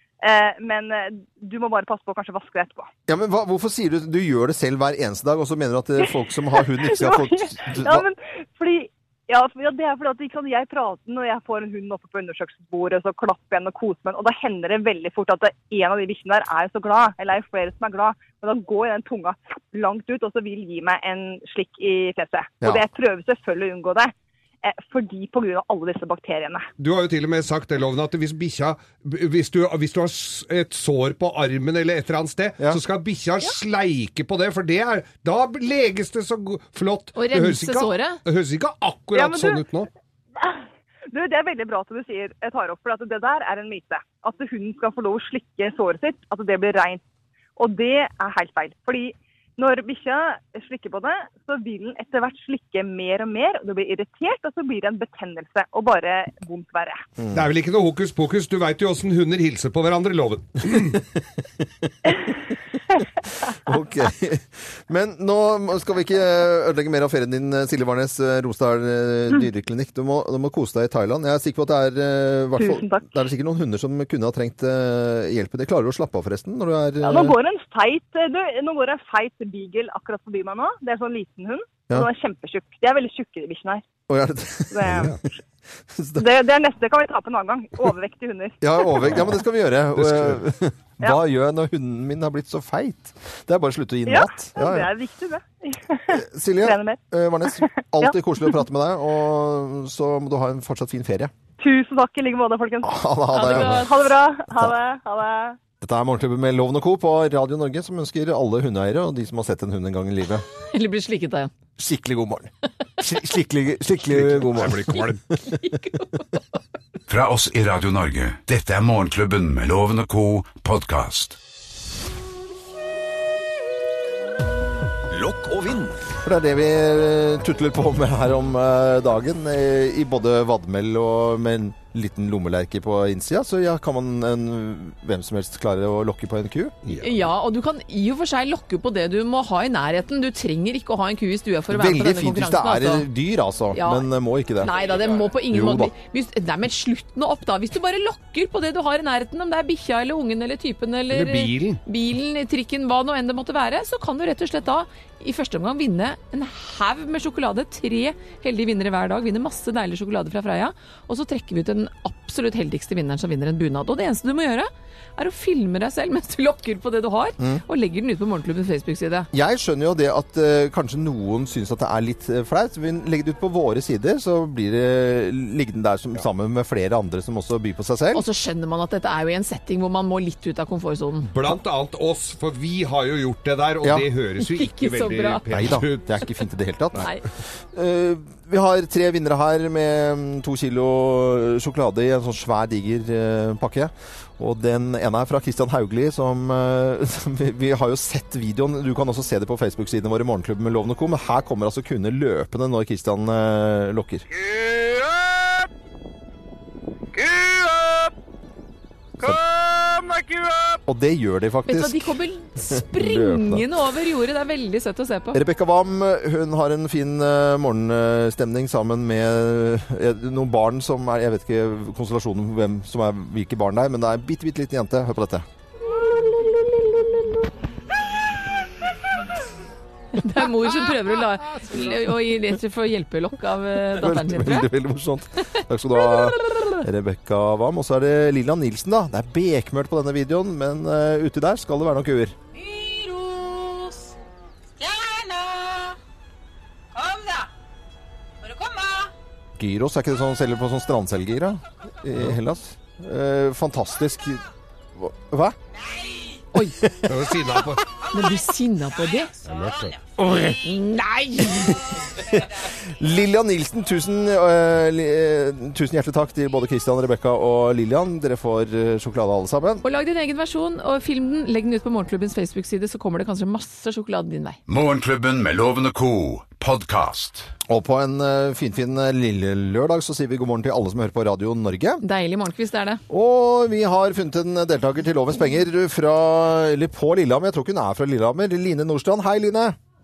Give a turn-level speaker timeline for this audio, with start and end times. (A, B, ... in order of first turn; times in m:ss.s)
0:00.2-0:02.9 A
0:03.1-0:08.1 B
0:06.0-0:26.7 A
0:26.8-0:39.9 C
0:37.2-0:38.2 D
0:39.1-0:39.6 A
0:40.4-0:47.0 A
0:47.6-0:57.0 A
0:57.2-0:57.4 B
0:57.3-1:01.0 C
1:03.6-1:17.4 B
1:12.6-1:13.1 A
1:17.0-1:23.8 A
1:24.1-1:25.2 B
1:24.7-1:25.2 A
1:25.9-1:26.2 B
1:26.1-1:29.2 A
1:28.6-1:34.9 B
1:30.0-1:30.4 C
1:34.0-1:37.0 A
1:36.1-1:41.3 B
1:37.5-1:38.6 A
1:41.6-1:45.6 A
1:42.8-1:43.9 B
1:45.8-1:50.4 B
1:50.7-1:51.5 D
1:51.8-1:55.6 B
1:54.1-1:55.2 C
1:55.4-1:56.4 D
1:57.1-2:01.4 E
2:05.1-2:06.0 E
2:06.2-2:16.8 B
2:16.8-2:17.2 C
2:17.0-2:23.0 D
2:21.7-2:24.7 B
2:23.7-2:24.1 D
2:24.6-2:49.3 D
2:31.1-2:31.8 C
2:49.3-2:58.2 B
2:58.1-3:01.3 D
3:01.2-3:06.2 C
3:04.4-3:05.4 D
3:05.5-3:24.2 B
3:27.3-3:27.8 F
3:30.8-3:33.6 B
3:31.6-3:35.4 D
3:35.3-3:45.4 B
3:50.1-3:54.7 D
3:53.9-4:02.4 B
3:56.1-3:56.7 D
4:02.5-4:04.1 F
4:04.8-4:06.0 F
4:06.9-4:07.5 F
4:08.4-4:09.1 F
4:09.6-4:14.4 B
4:14.9-4:15.6 B
4:16.8-4:17.6 B
4:17.0-4:17.8 C
4:18.1-4:19.3 D
4:19.4-4:20.0 C
4:20.6-4:21.8 D
4:21.4-4:29.8 B
4:29.8-4:34.6 D
4:34.7-4:37.5 E
4:37.7-4:42.0 B
4:42.0-4:43.0 D
4:43.1-4:49.8 B